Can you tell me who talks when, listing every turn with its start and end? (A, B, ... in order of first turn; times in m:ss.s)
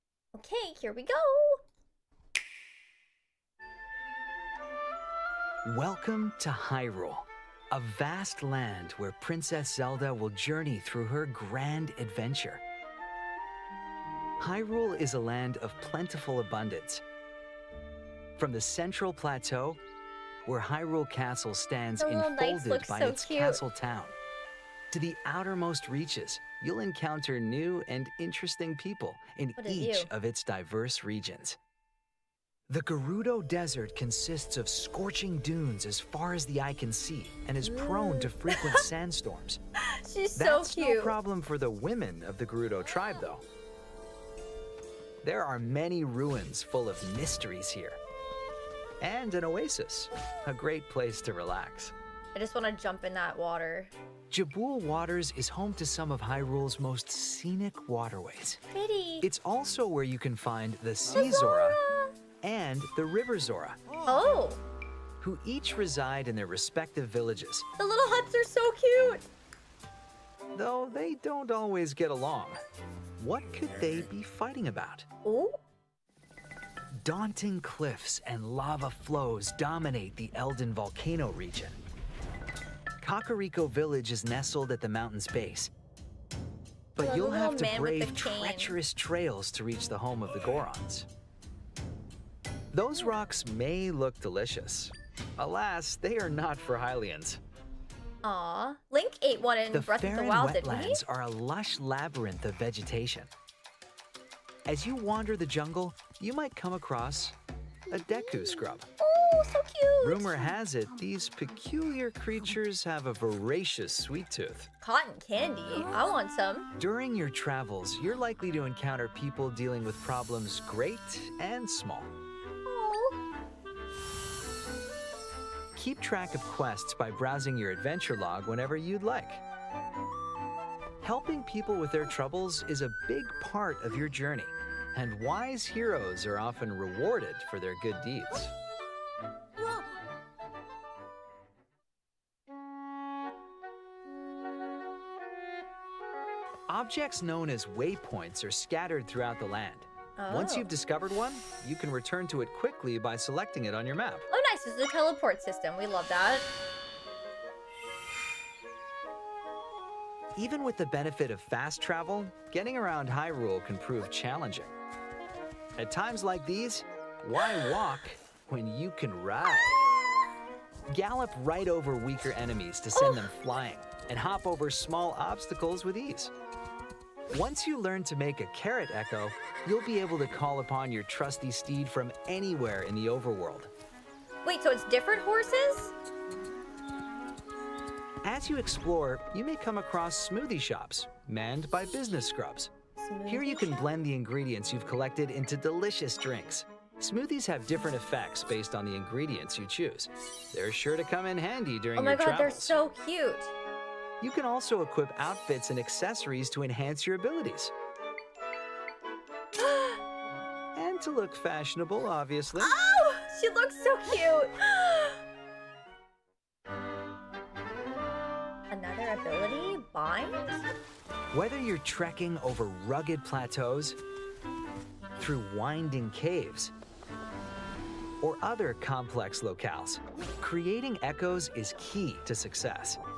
0:00.3-0:01.6 A
0:05.6-0:12.6 B
0:14.4-0:17.0 B
0:18.4-0:19.8 B
0:20.4-0:24.1 B
0:22.0-0:23.6 A
0:24.9-0:31.6 B
0:29.6-0:30.1 A
0:32.7-0:39.6 B
0:37.6-0:38.8 A
0:39.8-0:41.2 A
0:40.4-0:43.4 B
0:42.8-0:43.2 A
0:45.2-0:48.0 B
0:49.0-0:51.9 B
0:52.3-0:53.9 A
0:54.3-0:58.6 B
0:58.7-0:59.3 A
0:59.2-1:01.8 B
1:01.1-1:02.1 A
1:02.4-1:03.8 B
1:04.0-1:04.6 A
1:05.2-1:07.6 B
1:07.8-1:09.2 A
1:10.5-1:12.6 B
1:13.2-1:15.0 B
1:15.2-1:15.6 A
1:17.0-1:21.8 B
1:23.0-1:25.7 B
1:26.9-1:31.1 B
1:27.0-1:28.8 A
1:32.7-1:37.4 B
1:38.2-1:41.0 A
1:39.7-1:43.3 B
1:44.7-1:47.3 B
1:47.9-1:48.9 B
1:49.0-1:50.4 A
1:50.0-1:54.7 B
1:54.8-1:56.7 A
1:56.8-2:02.1 B
2:02.6-2:03.2 A
2:05.7-2:09.4 B
2:11.0-2:18.5 B
2:26.7-2:34.3 B
2:30.2-2:30.7 A
2:34.3-2:36.5 A
2:40.4-2:44.7 B
2:45.8-2:49.9 B
2:50.9-2:56.3 B
2:53.0-2:53.3 A
2:57.3-3:03.7 B
3:04.4-3:05.9 A
3:08.2-3:12.7 B
3:13.0-3:13.8 A
3:13.2-3:22.8 B
3:21.9-3:23.5 A
3:24.2-3:27.7 B
3:29.6-3:30.0 A
3:30.7-3:32.8 B
3:32.6-3:35.2 A
3:38.7-3:40.6 A
3:41.3-3:44.0 B
3:45.2-3:46.7 B
3:48.2-3:53.0 B